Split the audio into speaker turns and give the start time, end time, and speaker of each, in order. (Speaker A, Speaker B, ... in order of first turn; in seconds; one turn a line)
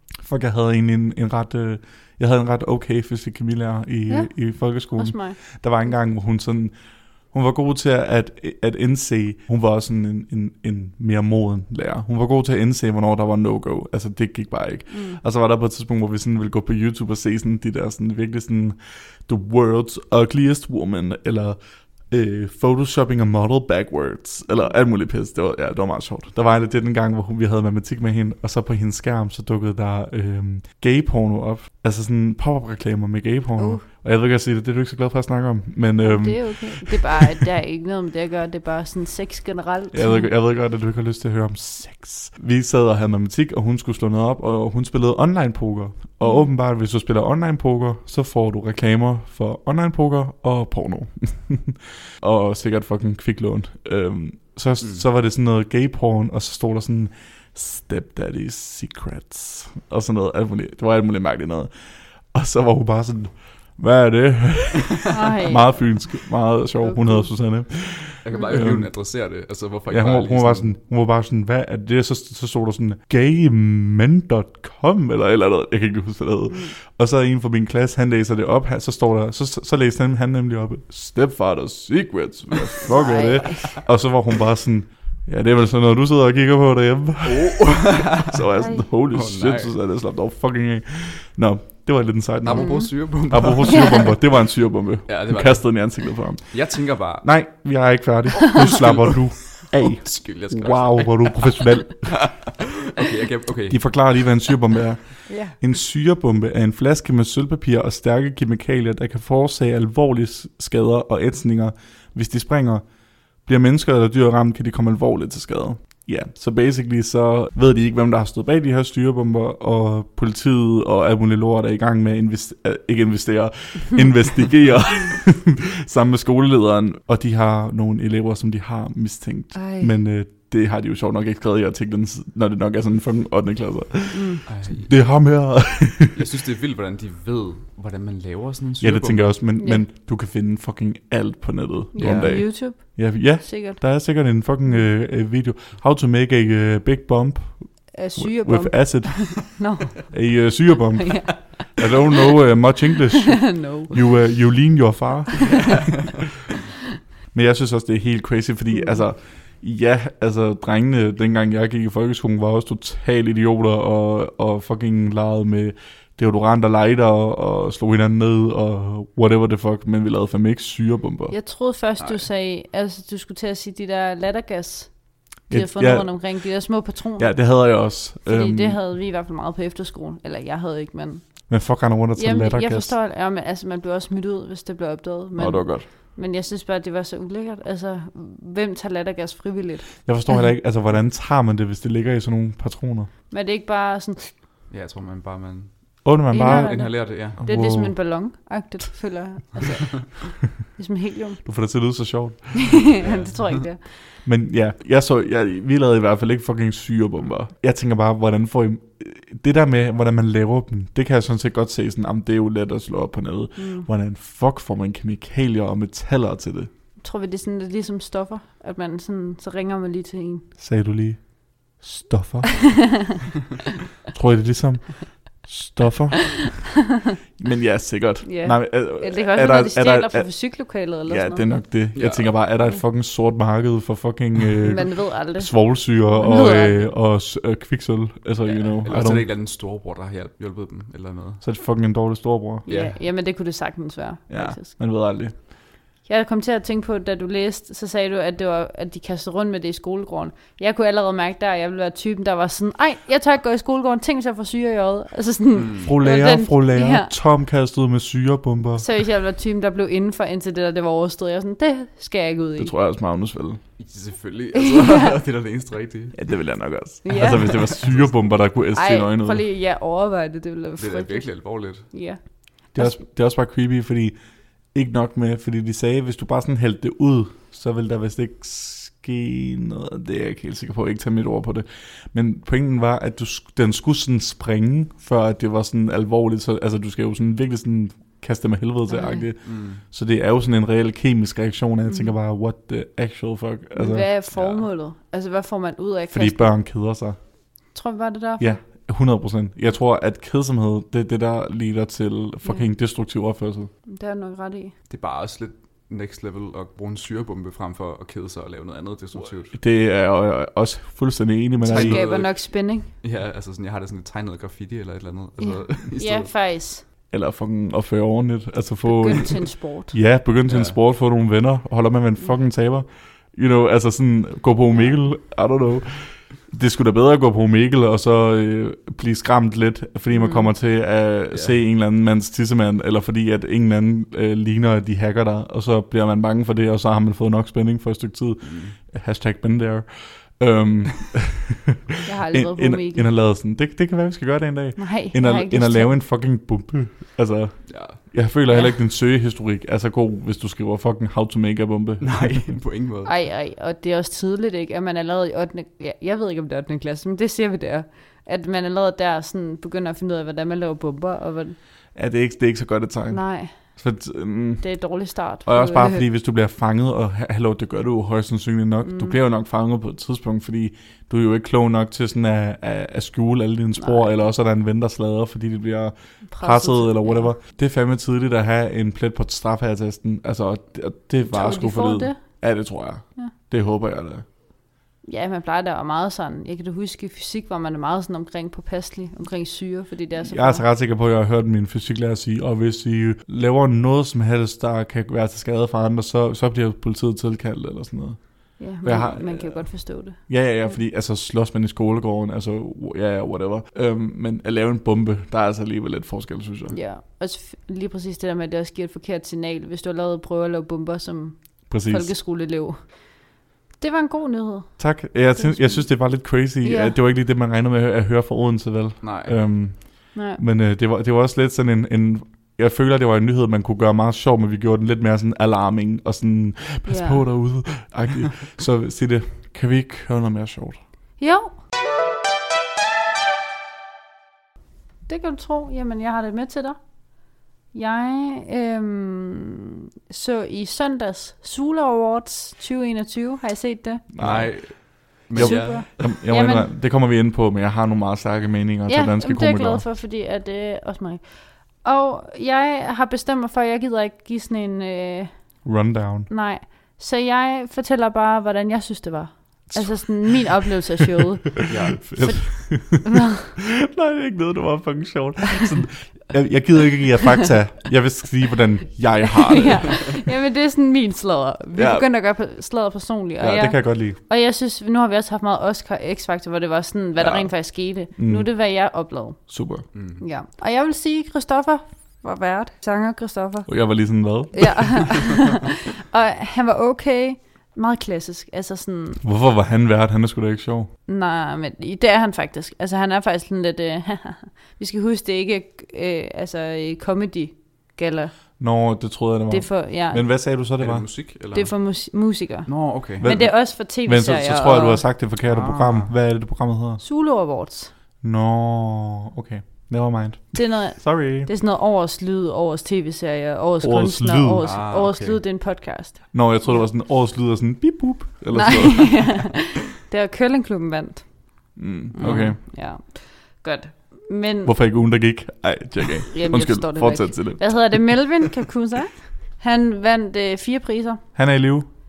Speaker A: 0.2-37.3
Speaker B: 4.1-5.5
Speaker B: 14.9-15.2
Speaker B: 33.6-33.8
Speaker B: 36.0-40.3
Speaker A: 39.9-69.1
Speaker B: 46.2-46.5
Speaker B: 65.1-65.9
Speaker B: 66.8-67.3
Speaker C: 68.2-70.8
Speaker A: 69.9-102.5
Speaker B: 76.5-76.7
Speaker B: 82.9-83.8
Speaker C: 87.2-88.4
Speaker B: 88.5-88.9
Speaker C: 89.1-89.8
Speaker C: 92.4-94.2
Speaker B: 92.5-93.0
Speaker B: 93.7-94.1
Speaker C: 95.1-97.3
Speaker C: 98.5-104.4
Speaker A: 103.7-136.2
Speaker B: 105.3-105.6
Speaker B: 129.5-129.9
Speaker B: 134.1-134.4
Speaker C: 134.5-139.4
Speaker A: 138.8-156.1
Speaker B: 139.6-139.8
Speaker B: 141.9-144.1
Speaker C: 142.0-142.5
Speaker B: 147.9-150.1
Speaker B: 151.0-151.8
Speaker B: 153.4-154.0
Speaker A: 157.3-171.4
Speaker B: 158.7-159.0
Speaker B: 171.3-177.7
Speaker C: 172.0-172.2
Speaker A: 175.5-176.5
Speaker A: 177.2-178.8
Speaker B: 178.2-181.5
Speaker A: 181.5-183.0
Speaker B: 182.2-190.4
Speaker A: 185.4-185.9
Speaker A: 190.1-193.1
Speaker B: 193.3-194.3
Speaker C: 194.7-197.4
Speaker A: 196.0-198.0
Speaker B: 196.3-201.6
Speaker A: 201.4-203.0
Speaker B: 202.8-203.9
Speaker C: 203.0-203.6
Speaker A: 203.9-216.7
Speaker B: 213.6-213.9
Speaker B: 217.0-220.5
Speaker A: 220.6-222.9
Speaker A: 224.1-226.7
Speaker A: 227.4-239.3
Speaker B: 228.2-231.5
Speaker C: 231.9-232.4
Speaker B: 234.7-236.9
Speaker C: 238.4-241.4
Speaker A: 241.4-242.7
Speaker B: 242.7-244.8
Speaker C: 242.7-243.0
Speaker A: 244.3-245.4
Speaker B: 246.0-257.1
Speaker C: 255.6-255.9
Speaker A: 255.8-258.9
Speaker B: 258.8-262.7
Speaker A: 262.6-263.6
Speaker C: 263.8-266.3
Speaker B: 264.6-265.2
Speaker A: 266.1-269.4
Speaker B: 267.0-267.7
Speaker C: 267.2-268.5
Speaker B: 268.7-273.0
Speaker C: 270.8-271.9
Speaker A: 272.7-274.2
Speaker A: 274.7-294.3
Speaker B: 288.9-289.3
Speaker C: 289.4-289.8
Speaker B: 291.9-292.1
Speaker B: 293.7-296.6
Speaker C: 294.4-294.6
Speaker A: 296.1-297.2
Speaker B: 297.7-298.6
Speaker A: 298.4-303.7
Speaker B: 303.9-304.7
Speaker C: 304.9-309.6
Speaker A: 309.5-312.0
Speaker C: 311.6-316.3
Speaker B: 311.7-312.9
Speaker B: 315.4-316.9
Speaker A: 317.1-341.7
Speaker B: 318.9-319.9
Speaker C: 320.5-320.8
Speaker B: 330.1-330.5
Speaker C: 331.3-331.6
Speaker C: 338.4-338.8
Speaker B: 342.1-343.1
Speaker A: 342.3-352.6
Speaker B: 344.8-346.0
Speaker C: 347.7-348.0
Speaker B: 348.5-348.8
Speaker C: 352.0-353.2
Speaker B: 353.1-361.6
Speaker A: 361.9-384.3
Speaker B: 363.1-363.8
Speaker B: 364.6-366.1
Speaker B: 368.8-369.1
Speaker B: 373.8-374.1
Speaker B: 376.3-377.3
Speaker B: 381.3-382.4
Speaker B: 385.0-390.6
Speaker A: 390.2-406.8
Speaker B: 398.6-400.8
Speaker B: 406.7-417.0
Speaker A: 411.7-412.1
Speaker A: 414.8-430.8
Speaker C: 419.0-419.4
Speaker B: 420.1-420.4
Speaker B: 426.9-427.2
Speaker B: 431.2-431.6
Speaker B: 435.1-436.9
Speaker B: 437.7-444.1
Speaker A: 444.1-449.8
Speaker C: 444.2-446.1
Speaker B: 445.4-446.7
Speaker B: 448.9-455.8
Speaker A: 455.6-456.3
Speaker B: 456.3-463.3
Speaker A: 459.7-460.7
Speaker C: 461.7-462.1
Speaker A: 462.0-470.1
Speaker B: 469.5-489.2
Speaker A: 471.7-472.1
Speaker A: 473.4-474.2
Speaker A: 477.2-478.5
Speaker A: 479.5-479.9
Speaker C: 479.9-480.2
Speaker A: 483.7-485.2
Speaker A: 489.2-490.9
Speaker B: 491.1-498.6
Speaker A: 498.6-501.1
Speaker B: 499.5-500.2
Speaker C: 500.8-502.1
Speaker B: 501.5-505.0
Speaker C: 502.7-503.3
Speaker A: 503.2-507.0
Speaker C: 505.4-506.1
Speaker B: 507.0-507.9
Speaker A: 508.2-511.5
Speaker B: 510.6-516.9
Speaker A: 513.8-514.7
Speaker C: 514.6-515.4
Speaker A: 516.3-519.6
Speaker B: 518.5-524.7
Speaker A: 521.8-522.6
Speaker C: 522.2-522.6
Speaker A: 524.6-528.2
Speaker B: 526.3-531.4
Speaker A: 531.4-531.9